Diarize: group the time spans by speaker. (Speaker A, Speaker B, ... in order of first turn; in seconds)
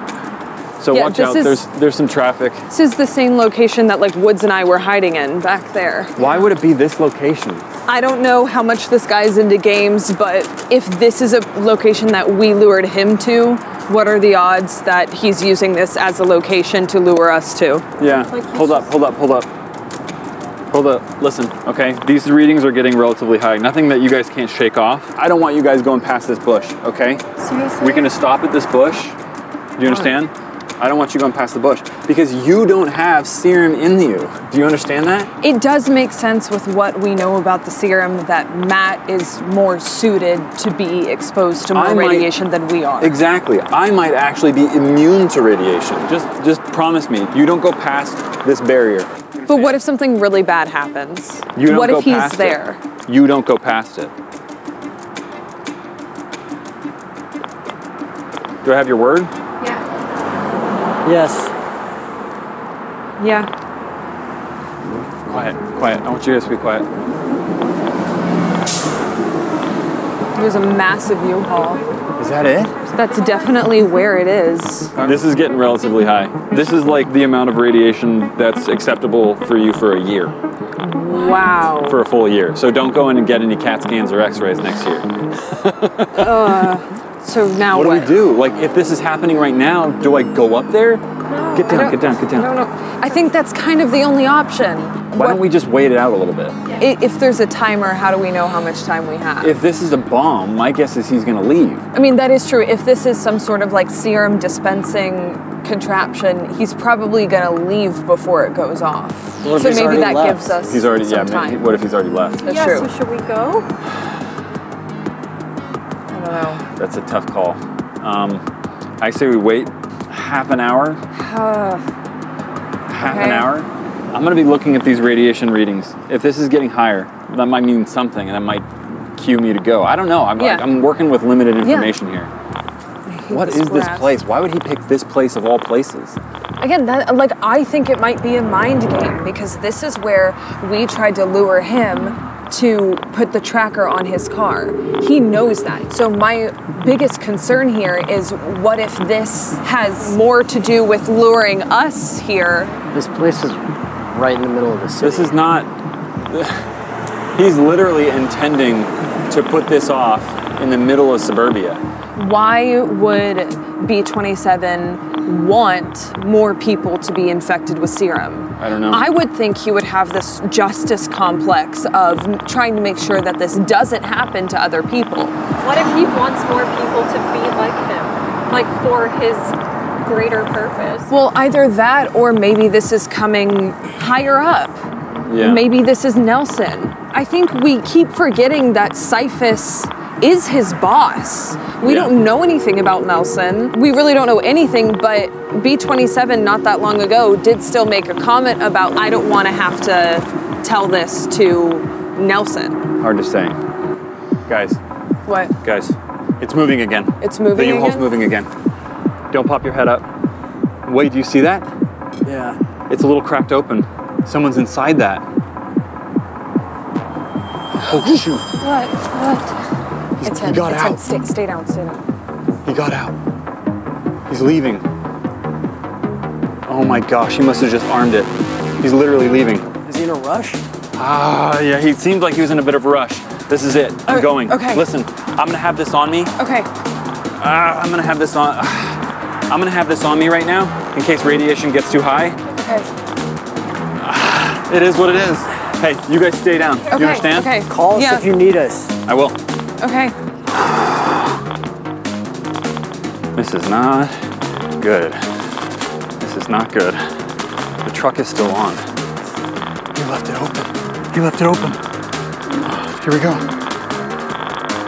Speaker A: 0.8-2.6, 6.2-7.6, 18.0-19.5, 20.7-27.2, 27.8-29.2, 29.8-35.3, 41.7-42.3, 43.0-49.7, 51.5-54.1, 58.6-59.3, 65.2-66.9, 72.2-72.7, 75.0-80.3, 81.8-86.7, 87.7-92.5, 95.1-96.6, 99.4-101.8, 109.6-110.1, 110.7-112.5, 116.6-118.4, 119.0-121.0, 122.9-132.3, 133.3-136.2, 155.0-155.7, 156.3-156.6, 157.3-161.8, 168.6-169.1, 185.3-185.6, 191.8-192.1, 203.0-203.6, 204.5-204.8, 205.6-208.5, 209.3-210.1, 210.8-211.7, 212.9-215.2, 217.7-218.4, 220.2-221.0, 222.6-223.2, 224.3-224.8, 226.7-229.7, 230.9-236.3, 237.4-242.4, 244.0-247.5, 249.1-249.4, 250.6-251.2, 253.3-254.2, 254.8-255.2, 256.2-257.1, 257.8-258.8, 259.9-261.8, 262.6-263.5
Speaker B: 0.9-1.6, 2.7-6.5, 7.9-17.9, 35.4-43.2, 49.4-52.8, 63.2-63.5, 70.3-71.8, 72.9-74.9, 80.8-82.0, 86.1-88.2, 91.3-95.4, 96.8-99.6, 101.9-111.7, 112.4-112.9, 116.1-116.6, 121.1-121.8, 123.0-123.5, 130.4-130.7, 131.6-131.9, 133.1-134.2, 136.6-152.7, 162.2-175.4, 181.1-184.8, 185.3-202.8, 205.2-205.5, 207.2-208.1, 218.0-219.5, 220.2-222.0, 234.1-234.8, 236.3-236.7, 242.5-242.9, 246.9-248.3, 249.8-250.1
Speaker C: 18.1-18.9, 27.4-28.1, 71.4-73.8, 91.3-91.7, 112.4-113.7, 175.6-181.1
Speaker D: 61.0-61.5, 64.9-65.4, 109.4-110.6, 152.9-155.4, 212.2-212.6, 229.8-230.6, 247.6-248.9